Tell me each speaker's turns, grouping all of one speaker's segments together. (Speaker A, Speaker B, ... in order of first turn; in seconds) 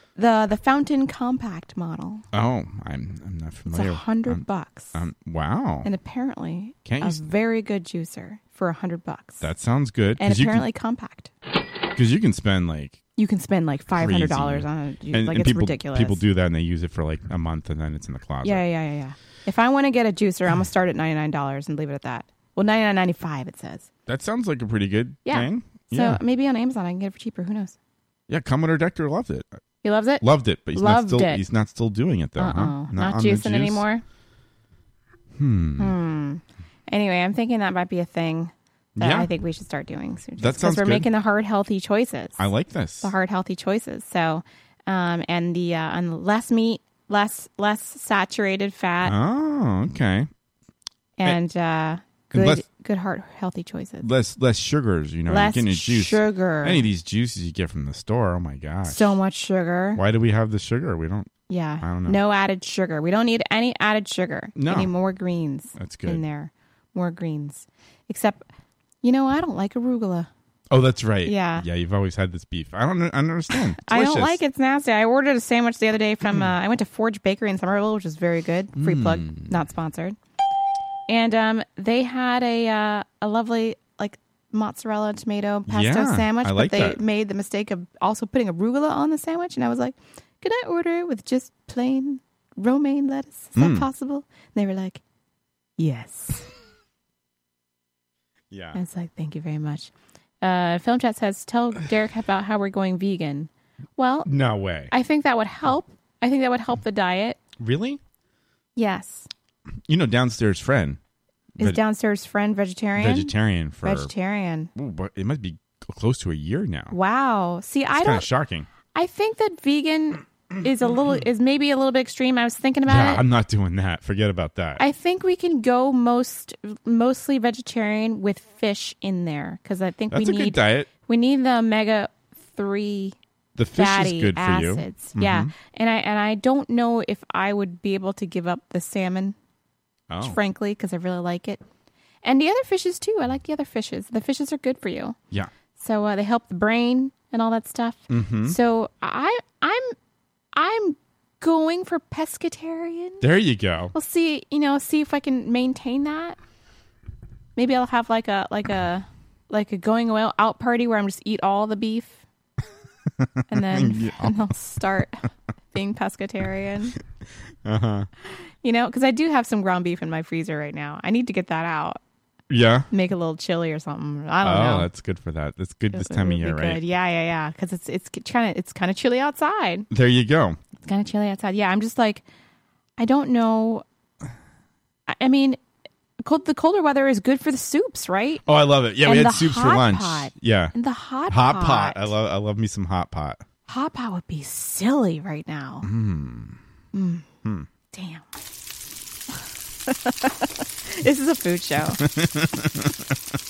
Speaker A: 0.1-2.2, 3.7-5.0, 5.8-9.5, 10.2-11.3, 13.2-16.2, 18.4-23.9, 25.2-27.8, 29.8-31.4, 32.4-34.0, 35.8-42.5, 43.0-49.1, 51.2-54.1, 55.3-56.8, 58.9-60.0, 61.5-68.5, 69.0-70.3, 71.2-71.7, 73.8-80.2, 81.1-95.0, 95.8-96.5, 98.7-99.9, 100.4-104.3, 104.9-107.4, 108.8-109.3, 111.6-113.3, 113.8-114.7, 116.9-118.3, 118.9-123.2, 124.8-133.2, 133.8-139.3, 140.2-141.6, 142.2-145.2, 145.8-149.9, 150.5-153.2, 153.9-156.4, 157.6-162.2, 163.5-166.9, 168.6-172.0, 172.9-174.9, 175.9-179.9, 180.8-182.2, 183.0-183.8, 185.1-185.6, 186.2-188.4, 189.0-192.1, 193.7-195.9, 196.9-197.2, 197.9-198.2, 199.9-202.0
Speaker B: 2.3-4.4, 4.9-5.9, 6.8-7.2, 9.4-10.7, 11.9-13.0, 13.9-18.6, 24.1-26.2, 28.3-29.5, 30.2-33.8, 35.3-35.9, 39.0-39.3, 40.4-41.1, 42.4-43.1, 49.0-50.3, 52.3-52.6, 54.0-59.1, 59.9-62.2, 64.5-64.9, 65.8-66.2, 70.7-74.4, 78.8-79.5, 85.7-87.0, 93.5-93.9, 98.5-98.8, 104.2-104.9, 107.6-108.0, 109.9-111.0, 113.0-114.1, 114.7-116.9, 117.9-118.7, 122.9-124.8, 130.1-130.9, 133.6-135.5, 140.1-140.4, 148.1-148.6, 153.2-153.9, 163.2-164.4, 167.6-168.1, 172.5-172.9, 174.4-176.8, 179.9-180.6, 188.4-190.7, 191.3-193.4, 195.8-196.6, 202.0-203.2